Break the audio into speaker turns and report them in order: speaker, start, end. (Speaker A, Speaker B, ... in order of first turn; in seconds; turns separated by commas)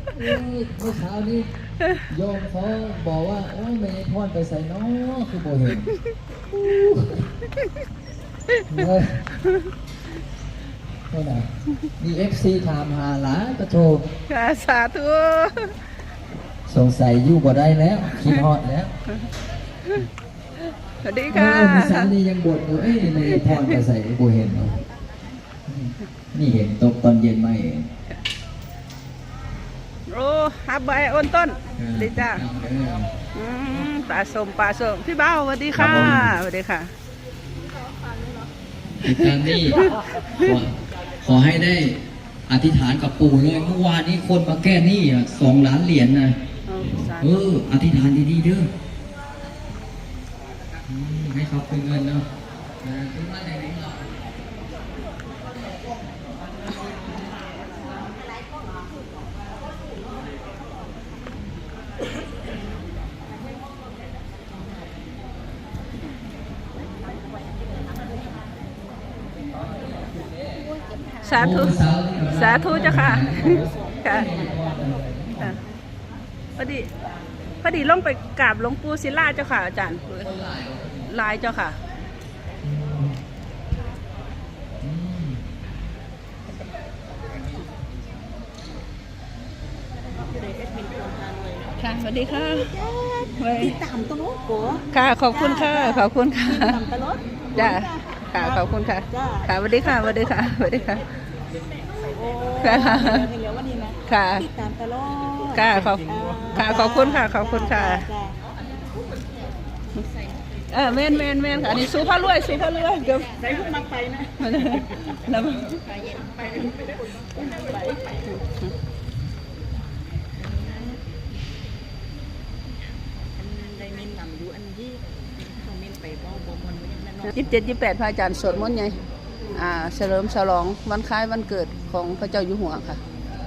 Speaker A: 0.1-1.5, Speaker A: 2.1-5.9, Speaker A: 6.5-7.2, Speaker A: 8.7-9.2, Speaker A: 11.1-14.1, Speaker B: 14.3-15.7, Speaker A: 16.7-18.9, Speaker B: 21.0-22.1, Speaker A: 21.3-24.8, Speaker B: 23.1-23.6, Speaker A: 25.7-27.9, Speaker B: 30.1-32.4, Speaker A: 31.8-33.1, Speaker B: 33.3-36.9, Speaker A: 35.7-36.4, Speaker A: 39.0-48.7, Speaker B: 39.1-40.5, Speaker B: 46.7-47.4, Speaker A: 50.9-52.3, Speaker A: 52.8-54.0, Speaker B: 71.2-71.8, Speaker A: 71.2-75.6, Speaker B: 72.3-74.3, Speaker B: 76.6-76.9, Speaker B: 77.6-80.4, Speaker A: 80.2-81.1, Speaker B: 81.1-81.8, Speaker A: 82.6-83.2, Speaker A: 84.8-85.4, Speaker B: 91.8-92.7, Speaker B: 93.3-93.8, Speaker C: 94.0-94.6, Speaker B: 94.9-96.8, Speaker C: 96.9-97.2, Speaker B: 97.5-101.0, Speaker B: 102.6-103.3, Speaker C: 103.2-103.5, Speaker B: 104.1-104.5, Speaker C: 104.7-105.4, Speaker B: 105.5-108.0, Speaker B: 110.7-113.4, Speaker C: 113.6-114.2, Speaker B: 114.4-115.8, Speaker C: 117.6-118.0, Speaker C: 123.9-124.9, Speaker C: 126.5-126.8, Speaker B: 127.2-128.9, Speaker B: 129.5-133.0